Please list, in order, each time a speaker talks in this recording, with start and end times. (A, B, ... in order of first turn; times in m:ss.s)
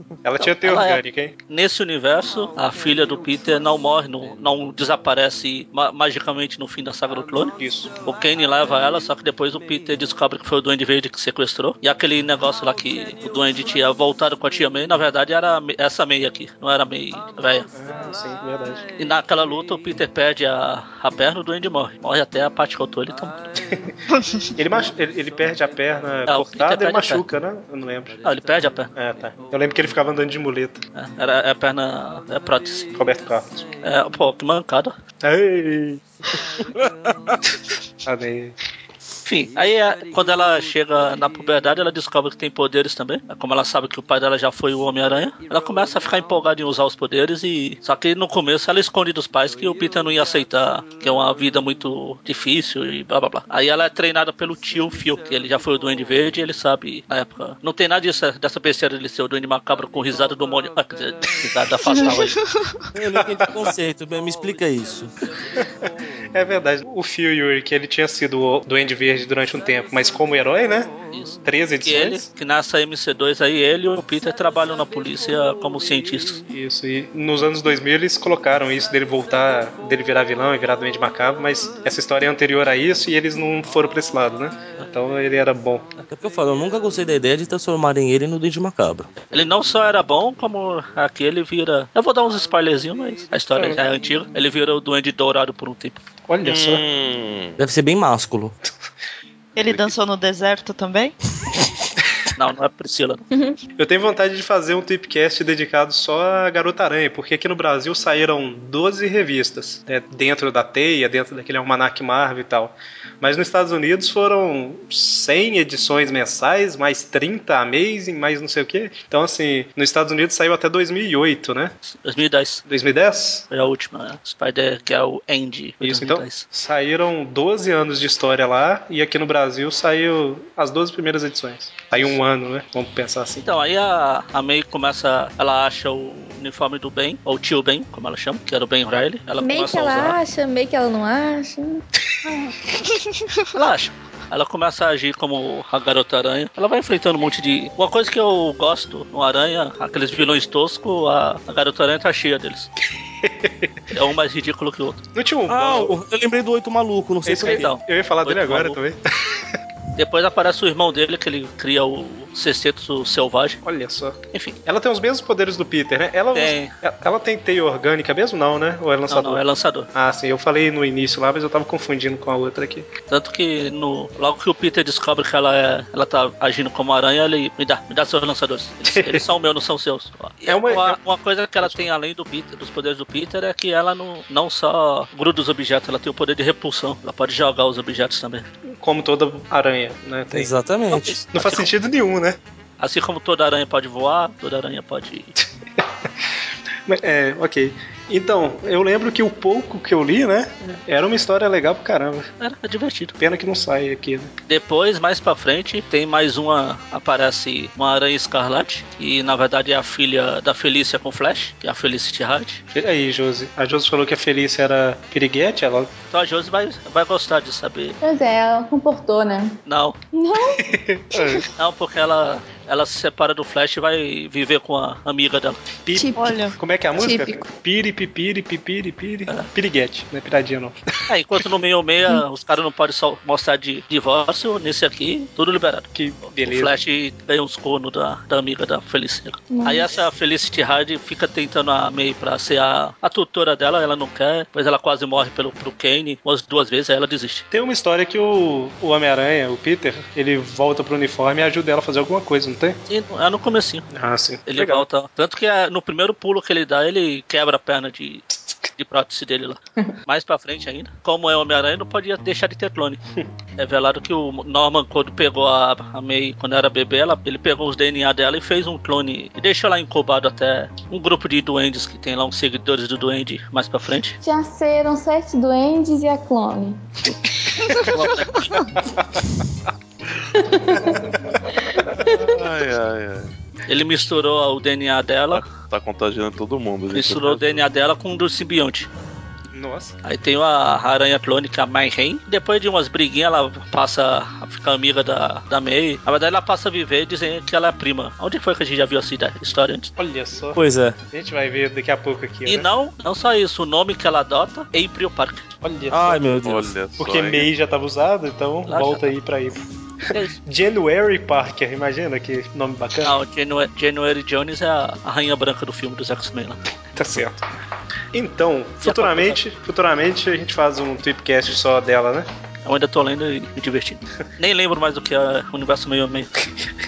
0:00.2-0:01.3 A
0:00.4-0:17.7 B
0:07.6-0:07.9 A
0:17.8-0:18.8 A
0:19.0-0:23.5 B
0:24.1-0:24.5 C
0:24.6-0:28.2 A
0:26.3-0:27.2 B
0:28.2-0:28.9 B
0:29.0-0:30.8 A
0:31.0-0:32.9 B
0:33.0-0:33.6 A
0:33.8-0:34.9 B
0:35.2-0:36.0 A
0:36.8-0:37.4 D
0:38.0-0:38.6 A
0:39.2-1:02.4 B
1:02.1-1:02.8 C
1:03.0-1:05.1 D
1:06.3-1:10.9 A
1:11.1-1:16.4 B
1:11.4-1:12.2 A
1:16.5-1:25.9 A
1:26.1-1:29.1 D
1:29.3-1:36.0 B
1:36.3-1:36.8 A
1:36.4-1:37.6 E
1:37.6-1:38.5 D
1:39.6-1:41.1 C
1:39.7-1:40.0 E
1:42.4-1:43.2 B
1:43.8-2:01.7 A
2:01.9-2:02.6 B
2:02.7-2:03.4 A
2:03.5-2:06.5 B
2:05.8-2:13.5 A
2:13.4-2:20.2 B
2:19.4-2:21.8 F
2:23.5-2:32.7 B
2:33.2-2:33.8 A
2:33.9-2:35.0 B
2:35.2-2:36.0 A
2:35.5-2:37.7 D
2:37.2-2:39.6 A
2:37.4-2:38.8 B
2:40.0-2:43.6 B
2:43.6-2:49.4 A
2:46.3-2:46.7 B
2:49.1-2:49.9 B
2:49.9-2:52.9 A
2:53.1-3:08.5 B
2:58.9-2:59.2 A
3:00.5-3:01.0 A
3:08.8-3:10.6 A
3:10.3-3:11.2 D
3:10.9-3:11.7 B
3:11.3-3:12.4 A
3:12.8-3:15.3 B
3:16.9-3:22.3 A
3:22.4-3:23.2 B
3:23.2-3:24.3 A
3:24.5-3:32.6 B
3:32.7-3:35.9 A
3:36.1-3:38.0 B
3:38.0-3:39.6 F
3:39.7-3:40.0 B
3:40.1-3:40.6 F
3:40.6-3:41.5 A
3:41.6-3:45.6 B
3:45.9-3:50.8 A
3:45.9-3:47.5 F
3:46.2-3:46.6 C
3:51.1-3:55.9 B
3:56.0-3:56.7 A
3:56.4-4:07.4 B
3:59.5-3:59.9 F
4:07.5-4:12.8 A
4:12.9-4:13.9 B
4:13.9-4:14.8 A
4:14.5-4:18.2 B
4:18.8-4:23.0 B
4:23.6-4:34.2 B
4:34.2-4:36.8 F
4:37.9-4:38.5 B
4:42.0-4:43.3 E
4:43.7-4:45.4 B
4:45.3-4:47.7 E
4:46.9-4:48.9 B
4:49.5-4:50.0 A
4:50.0-4:59.9 B
5:00.0-5:00.6 A
5:00.6-5:01.0 D
5:01.1-5:02.7 A
5:02.5-5:05.4 B
5:05.6-5:06.2 A
5:05.9-5:06.7 D
5:06.4-5:07.5 E
5:07.0-5:09.6 A
5:08.7-5:09.1 B
5:10.1-5:10.4 B
5:10.5-5:13.2 A
5:13.0-5:16.6 B
5:17.0-5:17.4 A
5:18.1-5:22.3 A
5:18.8-5:19.4 B
5:22.6-5:26.3 B